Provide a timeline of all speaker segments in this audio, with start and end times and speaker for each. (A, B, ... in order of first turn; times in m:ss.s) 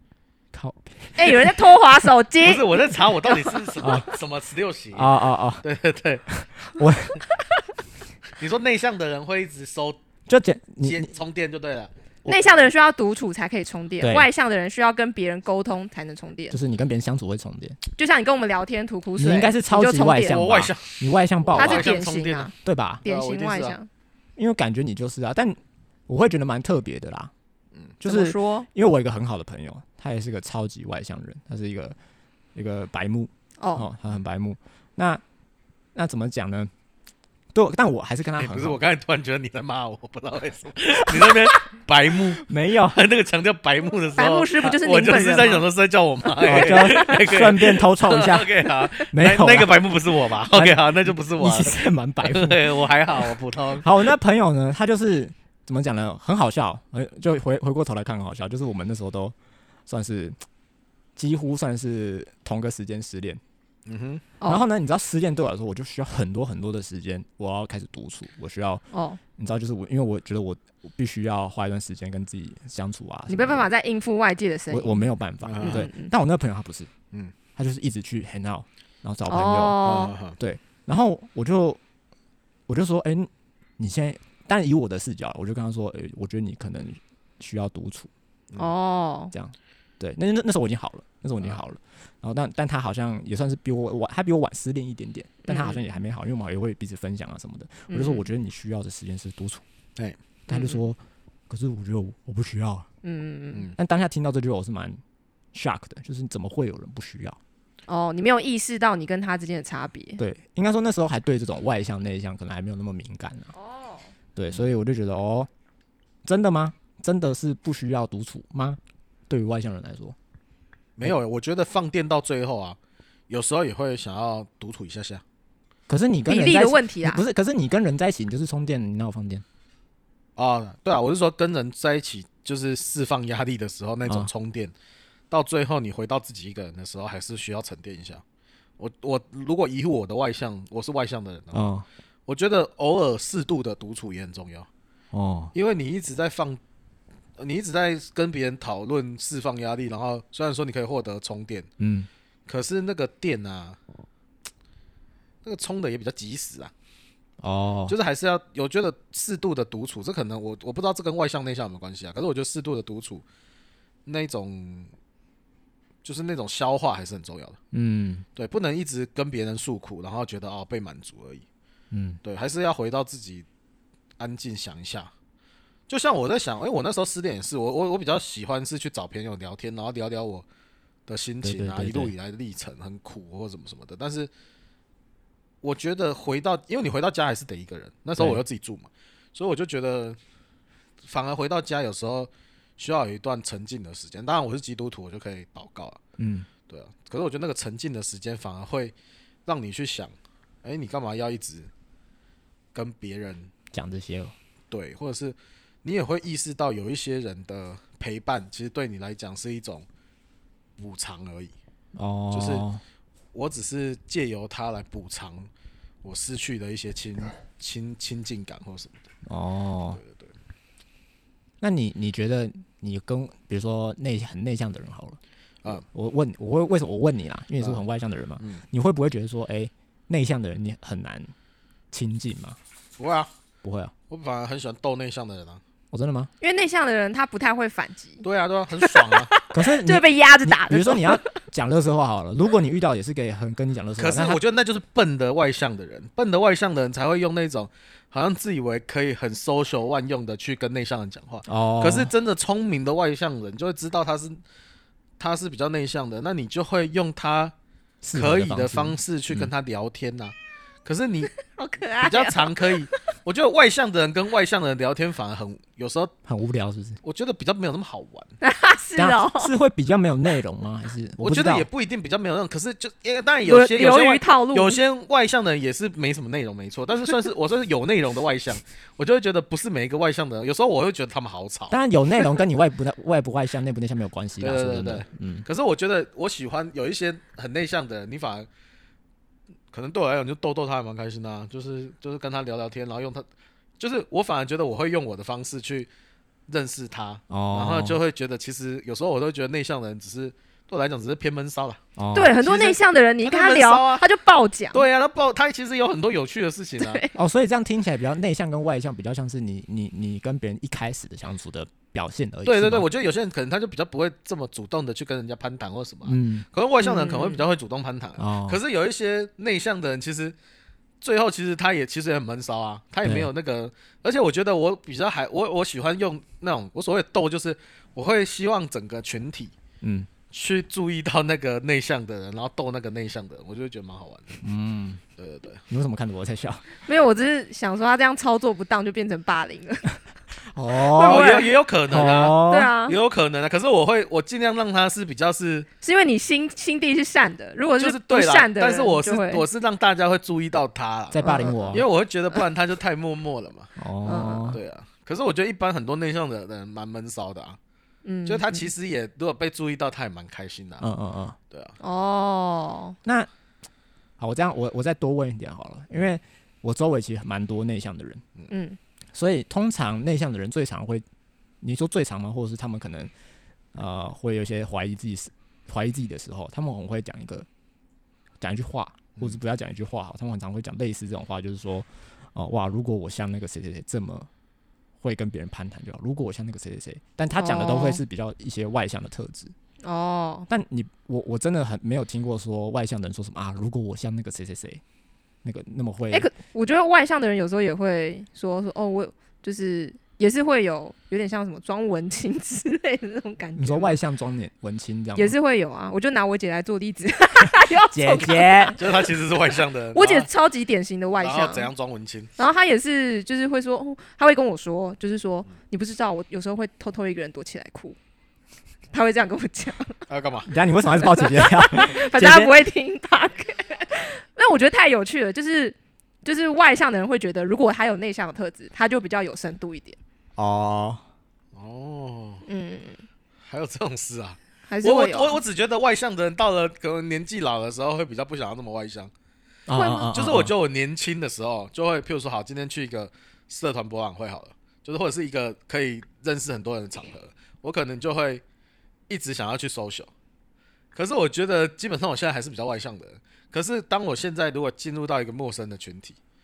0:00.5-0:01.6 A
0:01.2-0:04.0 B
0:02.4-0:05.1 C
0:03.8-0:04.1 A
0:04.9-0:05.6 A
0:05.6-0:06.2 C
0:06.3-0:07.2 A
0:08.4-0:10.0 C
0:10.3-0:11.1 A
0:10.8-0:11.9 C
0:12.3-0:16.6 B
0:14.0-0:14.3 A
0:16.5-0:17.8 A
0:18.0-0:20.4 B
0:19.2-0:21.9 A
0:20.2-0:22.5 C
0:21.6-0:22.5 B
0:22.6-0:23.0 A
0:23.0-0:23.8 C
0:23.0-0:23.9 B
0:24.4-0:27.3 A
0:28.0-0:32.0 A
0:28.0-0:28.7 B
0:32.6-0:35.2 A
0:33.6-0:33.9 B
0:36.0-0:36.7 A
0:37.5-0:38.8 A
0:38.4-0:54.1 C
0:41.1-0:41.4 A
0:42.4-0:43.0 A
0:44.2-0:45.7 B
0:46.4-0:59.4 A
0:46.6-0:47.1 B
0:59.9-1:00.4 A
1:01.2-1:03.4 A
1:03.9-1:04.2 C
1:04.5-1:08.8 A
1:08.9-1:09.2 B
1:09.4-1:13.7 A
1:13.3-1:15.1 B
1:14.7-1:16.9 A
1:15.4-1:15.8 C
1:15.6-1:16.1 B
1:17.6-1:21.8 A
1:19.3-1:20.2 B
1:19.8-1:20.4 C
1:22.7-1:28.1 A
1:28.6-1:29.3 B
1:29.3-1:39.6 A
1:35.4-1:35.8 B
1:37.9-1:38.3 B
1:40.5-1:42.9 A
1:40.5-1:40.8 B
1:43.0-1:43.7 B
1:43.8-1:45.0 A
1:45.5-1:47.4 A
1:47.9-1:50.2 B
1:50.2-1:53.5 A
1:53.6-1:54.1 B
1:54.4-1:55.5 A
1:56.2-2:00.2 A
2:01.0-2:02.8 C
2:03.3-2:05.2 C
2:05.9-2:09.4 A
2:06.3-2:07.2 B
2:10.4-2:14.7 C
2:15.3-2:18.2 C
2:18.8-2:21.7 C
2:21.5-2:21.9 A
2:22.3-2:24.7 C
2:25.1-2:25.5 A
2:25.6-2:26.6 C
2:27.4-2:31.7 C
2:31.8-2:32.1 A
2:32.5-2:33.8 C
2:35.4-2:36.7 C
2:37.4-2:38.0 A
2:37.9-2:43.2 C
2:44.1-2:44.9 C
2:46.0-2:47.6 C
2:47.7-2:48.2 A
2:48.4-2:51.4 C
2:51.9-2:52.2 A
2:52.2-2:53.5 C
2:54.2-2:55.1 C
2:55.9-3:00.5 C
3:01.1-3:04.3 C
3:01.4-3:02.1 A
3:05.6-3:10.2 C
3:08.2-3:08.4 A
3:11.0-3:16.0 C
3:16.2-3:16.5 A
3:16.7-3:18.9 C
3:19.5-3:21.7 C
3:22.7-3:23.5 C
3:23.7-3:24.4 A
3:24.7-3:29.8 C
3:30.8-3:31.5 C
3:32.0-3:32.8 A
3:32.3-3:32.7 C
3:33.3-3:35.5 C
3:36.0-3:39.0 C
3:39.3-3:40.0 A
3:39.9-3:40.3 C
3:41.6-3:51.3 A
3:47.6-3:47.8 C
3:51.9-3:52.6 A
3:53.0-3:53.3 C
3:53.6-3:53.9 A
3:54.1-3:55.6 C
3:55.9-3:56.3 A
3:56.4-3:58.2 B
3:58.2-3:59.3 C
3:58.8-4:01.2 B
3:59.5-4:04.4 A
4:04.0-4:14.4 C
4:11.5-4:12.1 A
4:15.2-4:17.5 C
4:18.0-4:19.5 A
4:18.1-4:21.3 C
4:21.4-4:23.0 B
4:22.0-4:26.1 C
4:26.3-4:27.0 A
4:27.0-4:28.3 C
4:28.4-4:29.5 B
4:29.0-4:31.7 A
4:31.2-4:41.8 C
4:33.4-4:34.8 B
4:41.7-4:45.5 A
4:44.4-4:48.5 C
4:49.7-4:53.3 C
4:53.8-4:55.9 C
4:56.5-5:01.8 C
4:57.3-4:58.0 A
5:02.0-5:02.4 A
5:02.1-5:04.8 B
5:02.4-5:04.0 C
5:04.7-5:07.0 C
5:06.8-5:07.1 B
5:07.1-5:12.9 A
5:12.4-5:20.4 C
5:16.1-5:16.5 A
5:16.8-5:17.4 B
5:18.2-5:18.6 A
5:21.0-5:29.5 C
5:23.0-5:23.3 A
5:29.8-5:30.1 A
5:30.3-5:34.4 C
5:34.4-5:35.0 A
5:35.2-5:35.6 C
5:35.7-5:36.6 A
5:36.9-5:39.9 B
5:40.5-5:42.7 A
5:40.9-5:43.0 B
5:41.0-5:45.7 C
5:45.8-5:49.4 B
5:47.8-5:53.7 C
5:51.1-5:51.9 A
5:51.2-5:51.8 B
5:53.8-5:54.6 A
5:54.1-5:54.6 B
5:54.5-5:57.6 C
5:58.0-5:58.7 B
5:58.3-6:00.9 C
6:00.8-6:01.4 A
6:01.5-6:01.8 C
6:01.8-6:03.0 B
6:04.2-6:08.2 A
6:08.5-6:08.8 B
6:09.1-6:11.0 A
6:11.6-6:13.1 A
6:13.7-6:17.5 A
6:18.4-6:24.3 A
6:25.0-6:29.5 A
6:27.4-6:28.0 B
6:29.8-6:30.5 B
6:30.5-6:34.8 A
6:35.4-6:36.3 A
6:36.1-6:44.0 B
6:43.6-6:45.4 A
6:45.2-6:49.0 B
6:47.9-6:48.8 A
6:48.8-6:50.3 C
6:49.9-6:51.7 B
6:51.2-6:52.3 C
6:52.4-6:58.0 B
6:58.9-7:00.0 B
7:00.1-7:00.5 C
7:00.5-7:02.6 A
7:01.0-7:10.0 B
7:10.4-7:11.0 A
7:11.5-7:12.4 C
7:12.5-7:13.0 B
7:13.5-7:19.1 C
7:14.7-7:15.4 B
7:19.7-7:20.5 A
7:19.7-7:20.1 B
7:20.1-7:28.4 C
7:29.1-7:30.1 C
7:31.0-7:36.2 C